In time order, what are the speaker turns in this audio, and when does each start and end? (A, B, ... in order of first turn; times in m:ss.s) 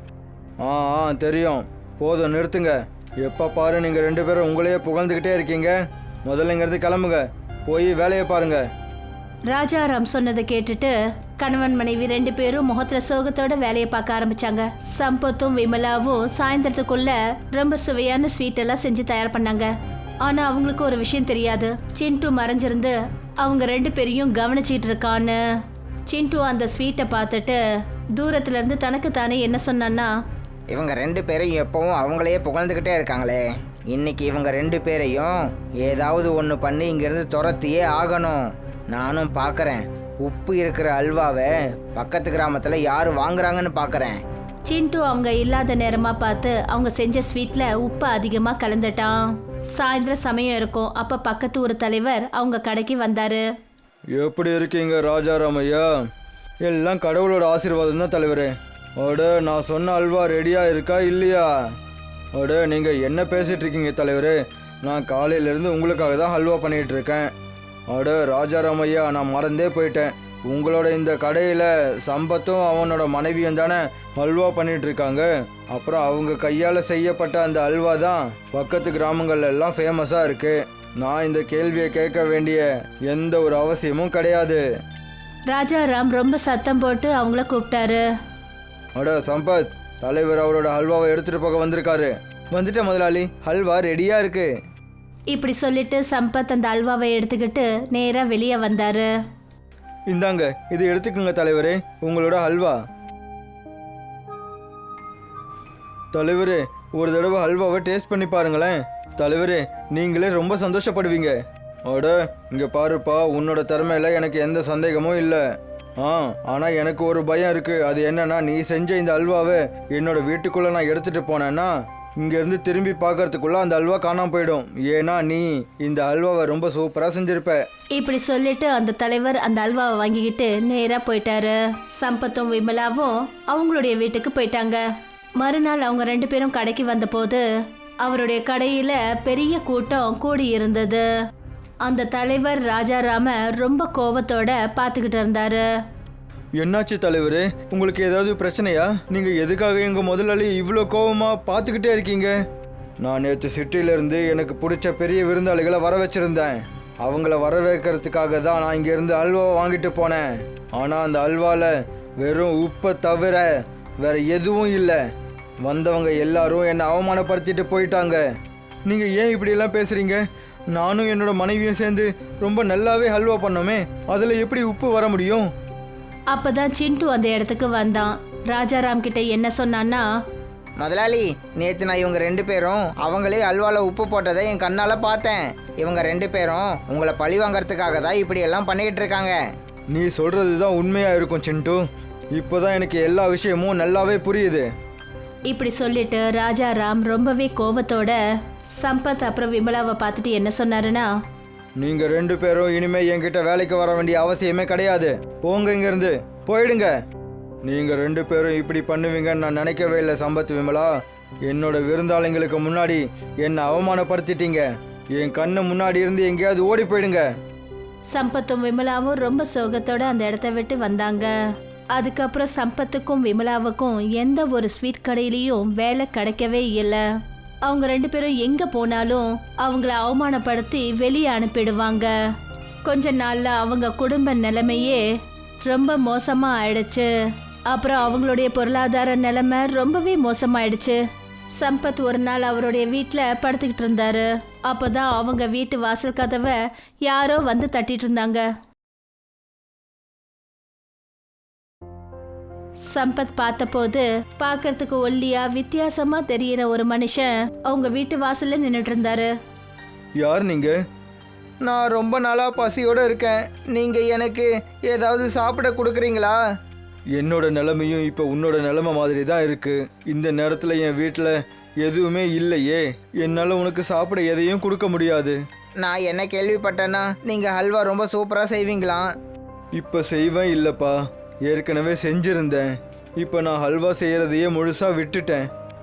0:00.6-0:08.6 A
0:09.5-0:19.7 B
0:20.2-0:25.4 B
0:26.1-0:27.6 B
0:28.1-0:30.1 B
0:30.7-0:44.2 C
0:44.6-0:53.4 B
0:54.1-0:55.9 A
0:56.6-1:01.7 A
1:02.4-1:07.3 A
1:07.9-1:24.6 A
1:25.5-1:28.0 B
1:29.0-1:34.5 A
1:35.3-1:39.1 B
1:40.1-1:42.8 A
1:46.1-1:55.4 A
1:56.0-2:07.6 A
2:08.0-2:14.8 B
2:15.4-2:17.4 B
2:18.0-2:21.0 B
2:21.8-2:25.6 B
2:26.6-2:32.3 A
2:33.0-2:43.5 A
2:44.0-2:45.0 A
2:45.6-2:48.2 A
2:48.9-2:55.5 A
2:56.3-3:00.0 B
3:00.8-3:09.4 C
3:09.9-3:11.8 A
3:12.3-3:14.7 A
3:15.5-3:18.2 B
3:18.7-3:21.1 B
3:21.8-3:26.9 A
3:27.6-3:30.9 A
3:31.4-3:37.3 A
3:38.1-3:41.3 B
3:41.9-3:47.0 B
3:47.6-3:52.1 B
3:52.8-3:55.0 B
3:55.6-3:57.1 B
3:57.7-4:01.0 B
4:01.5-4:08.5 B
4:12.8-4:19.3 B
4:20.2-4:20.8 A
4:21.6-4:23.8 A
4:23.8-4:24.5 C
4:24.9-4:25.6 A
4:25.6-4:26.4 C
4:27.1-4:35.4 A
4:35.8-4:39.1 C
4:39.8-4:45.5 A